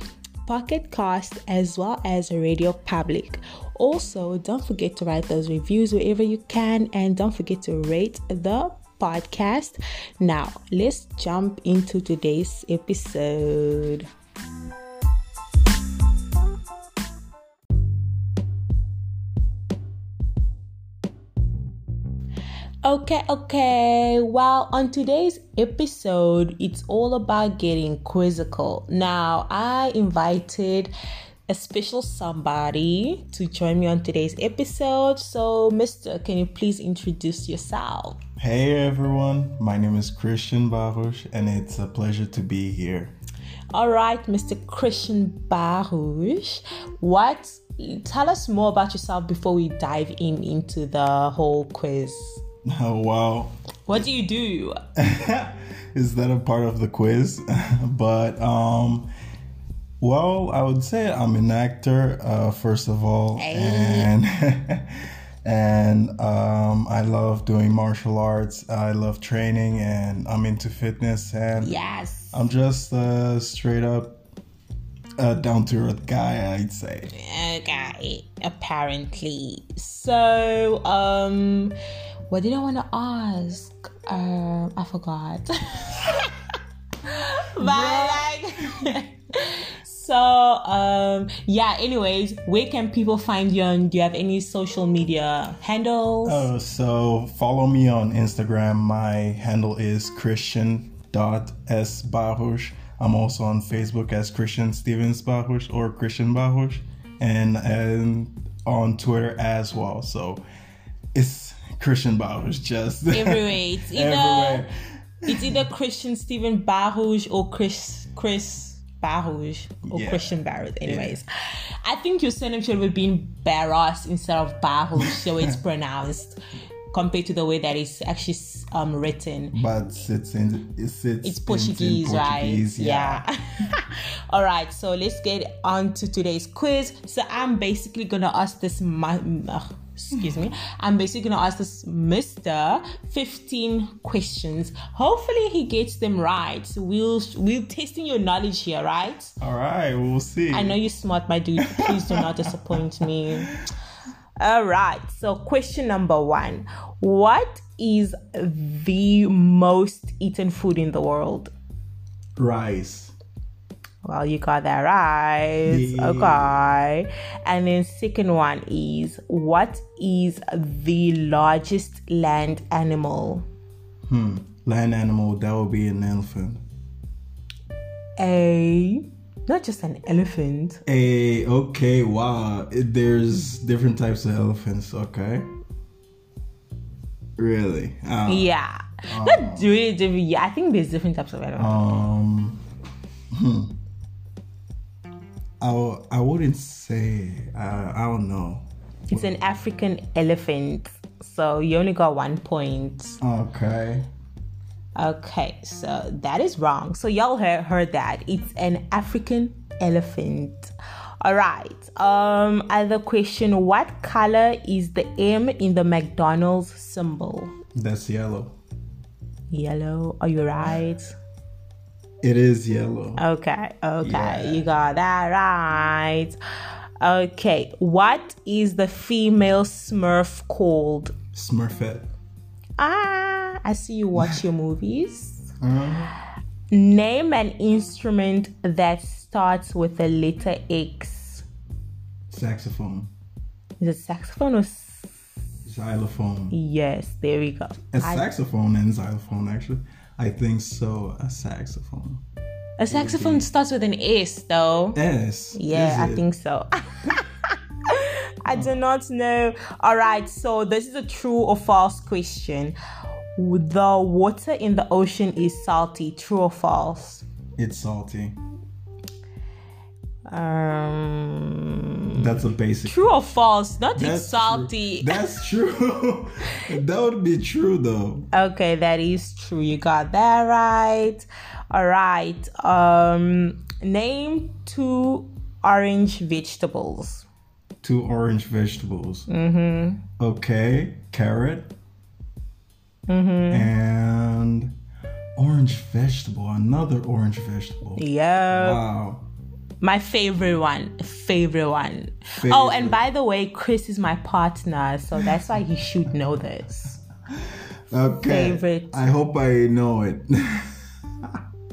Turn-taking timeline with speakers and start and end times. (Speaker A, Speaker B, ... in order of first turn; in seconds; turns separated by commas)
Speaker A: 0.4-14.1, Speaker A: 22.8-30.9, Speaker A: 31.5-38.2, Speaker B: 38.4-43.1, Speaker A: 43.7-52.4, Speaker B: 52.6-54.0, Speaker A: 53.9-54.8, Speaker B: 55.0-59.1, Speaker B: 60.0-71.7, Speaker A: 63.4-64.1, Speaker A: 71.6-72.4, Speaker B: 72.3-74.2, Speaker B: 75.2-77.1, Speaker A: 77.1-81.8, Speaker A: 82.3-86.4, Speaker A: 87.0-96.5, Speaker B: 87.6-88.3, Speaker B: 96.2-110.4, Speaker B: 111.1-114.7, Speaker A: 113.1-114.6, Speaker B: 115.2-115.6, Speaker A: 115.2-121.2, Speaker B: 119.9-121.2, Speaker A: 121.8-126.4, Speaker B: 125.0-125.4, Speaker A: 126.9-129.6, Speaker B: 129.5-133.2, Speaker A: 131.2-149.3, Speaker B: 149.4-150.8, Speaker A: 150.5-153.5, Speaker B: 151.6-153.6, Speaker A: 154.4-161.5, Speaker B: 162.4-163.1, Speaker A: 164.0-173.4, Speaker B: 165.7-166.7, Speaker B: 174.1-176.6, Speaker A: 178.2-180.8, Speaker B: 180.8-185.5, Speaker B: 187.4-188.5, Speaker A: 188.3-191.8, Speaker B: 189.1-189.7, Speaker B: 191.6-192.6, Speaker B: 193.3-193.7, Speaker B: 195.6-199.4, Speaker A: 199.1-203.2, Speaker B: 203.2-204.1, Speaker A: 204.9-217.5, Speaker B: 217.7-218.6, Speaker A: 219.5-221.1, Speaker B: 222.2-223.2, Speaker A: 223.2-226.4, Speaker B: 224.0-224.7, Speaker A: 227.0-231.1, Speaker B: 231.3-232.1, Speaker A: 232.8-235.5, Speaker B: 235.6-236.1, Speaker A: 236.7-241.4, Speaker B: 242.3-243.1, Speaker A: 243.8-245.1, Speaker B: 245.6-246.6, Speaker A: 246.5-248.2, Speaker B: 247.9-252.2, Speaker A: 252.8-255.0, Speaker B: 252.9-253.4, Speaker B: 254.9-256.2, Speaker A: 255.5-262.8, Speaker A: 263.4-267.2, Speaker B: 267.6-268.4, Speaker A: 270.3-275.2, Speaker B: 272.1-273.1, Speaker B: 273.9-278.3, Speaker A: 278.3-287.2, Speaker B: 287.8-289.3, Speaker A: 289.3-290.0, Speaker B: 290.2-291.7, Speaker A: 293.1-293.7, Speaker B: 293.5-294.8, Speaker B: 295.4-299.2, Speaker A: 298.0-298.8, Speaker A: 299.8-307.0, Speaker B: 302.4-303.0, Speaker B: 307.4-311.4, Speaker A: 308.2-309.0